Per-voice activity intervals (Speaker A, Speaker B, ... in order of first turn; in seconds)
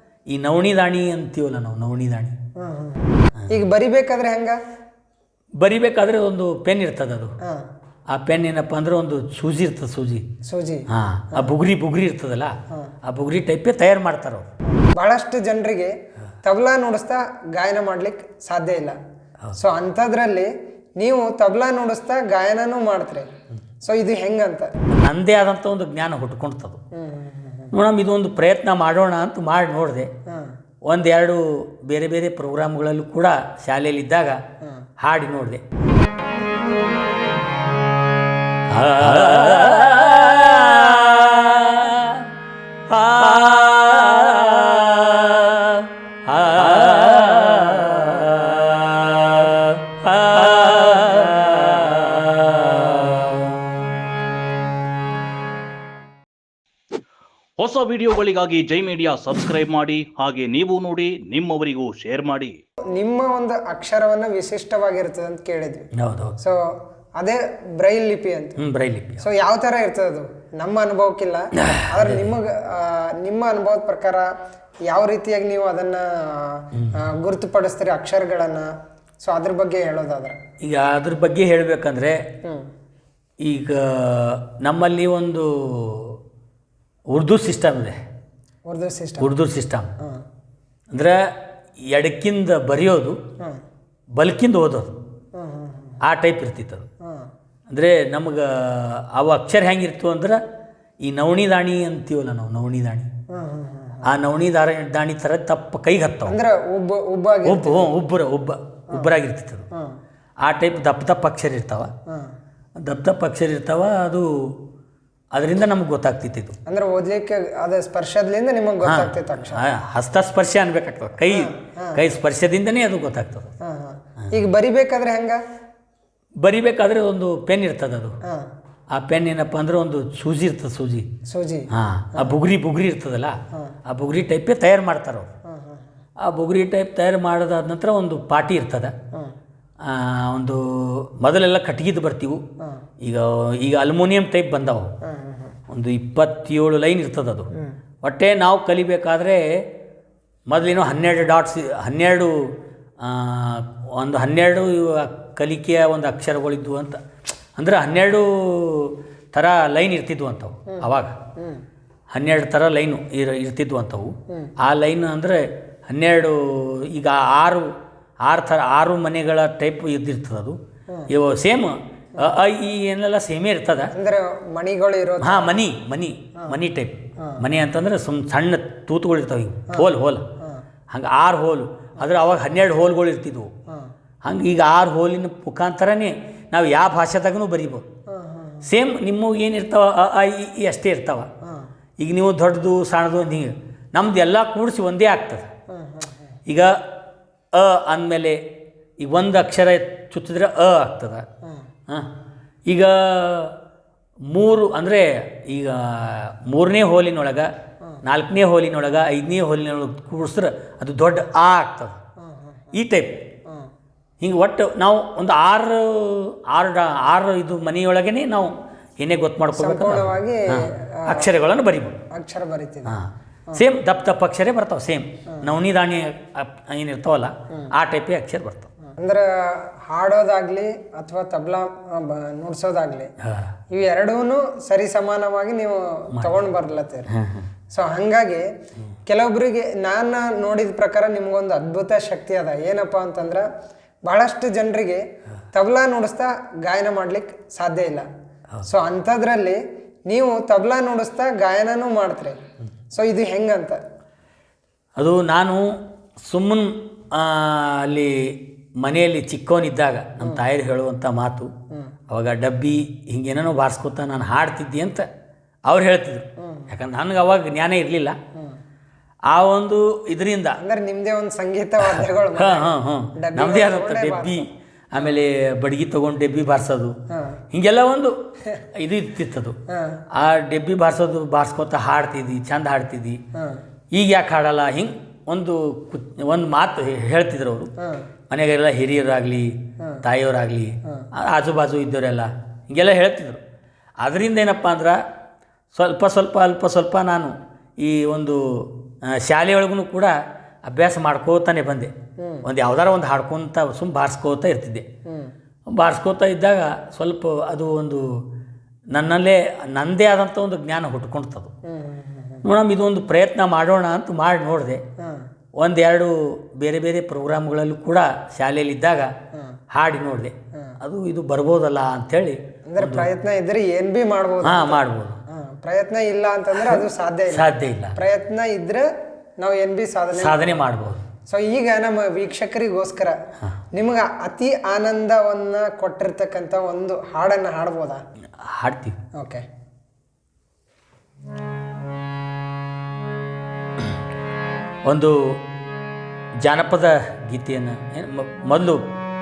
Speaker A: 0.3-2.3, 5.6-7.3, 8.1-10.2, 10.9-14.5, 24.9-26.8, 27.7-30.1, 30.9-34.4, 35.0-35.6, 38.7-42.3, 42.9-53.6, 66.0-66.3, 68.6-69.2, 71.6-72.2, 80.6-82.2, 83.4-86.2, 87.1-88.0, 89.2-89.9, 90.9-91.2, 91.9-93.2, 94.2-95.0, 96.0-96.9, 97.7-100.4, 101.0-103.1, 104.0-106.4, 107.4-109.7, 110.4-111.9, 112.8-114.5, 115.3-116.5, 118.8-123.5, 126.4-128.2, 128.9-131.1, 131.7-135.3, 136.2-138.9, 139.8-142.4, 143.0-144.9, 145.7-147.5, 148.0-149.6, 150.5-157.0, 157.6-161.2, 162.1-167.7, 168.3-170.6, 171.1-173.9, 175.2-180.2, 180.9-183.5, 184.2-187.8, 188.6-191.3, 192.0-195.4, 196.5-196.8, 197.5-198.4, 199.0-201.2, 202.7-203.6, 204.3-207.5, 208.0-212.0, 212.7-213.2, 214.2-222.0, 222.8-228.7, 233.2-233.5, 236.1-236.5, 237.1-237.5, 255.0-255.7, 256.2-261.5, 262.1-265.1, 265.7-268.2, 269.3-270.6, 271.8-276.9, 277.5-278.1, 278.7-279.6, 280.1-283.2, 283.9-287.7, 288.3-293.4, 294.0-295.0, 295.7-300.1, 300.7-301.9, 302.4-304.8, 305.8-308.2, 308.9-311.5, 312.4-314.8, 315.6-319.1, 319.7-323.1, 324.4-325.2, 326.6-328.0, 330.1-331.0, 338.4-338.9, 344.9-345.2, 346.4-348.8
Speaker B: 2.6-4.6, 10.4-11.5, 14.9-15.9, 16.4-19.0, 19.5-23.3, 23.8-24.7, 26.9-27.7, 62.9-65.9, 67.2-68.6, 69.2-74.3, 74.9-78.7, 79.2-80.4, 88.7-89.3, 95.3-96.0, 103.3-104.1, 106.2-108.0, 116.7-119.6, 121.3-122.0, 123.6-125.4, 131.3-132.3, 135.5-135.9, 145.0-145.6, 161.4-161.6, 173.9-175.6, 188.1-188.7, 191.4-191.7, 195.7-196.3, 212.2-212.7, 219.6-221.3, 222.1-222.9, 228.8-233.1, 233.7-237.1, 237.7-238.4, 239.1-243.4, 244.1-245.0, 245.5-248.1, 248.6-249.6, 250.1-252.4, 252.9-253.8, 266.4-266.7, 270.6-274.4, 277.1-277.4, 279.7-280.0, 283.4-283.6, 287.8-288.1, 302.2-302.4, 305.1-305.3, 311.7-312.4, 322.7-328.8, 329.4-330.6, 331.3-333.2, 333.7-338.0, 339.2-339.4
Speaker C: 57.6-62.6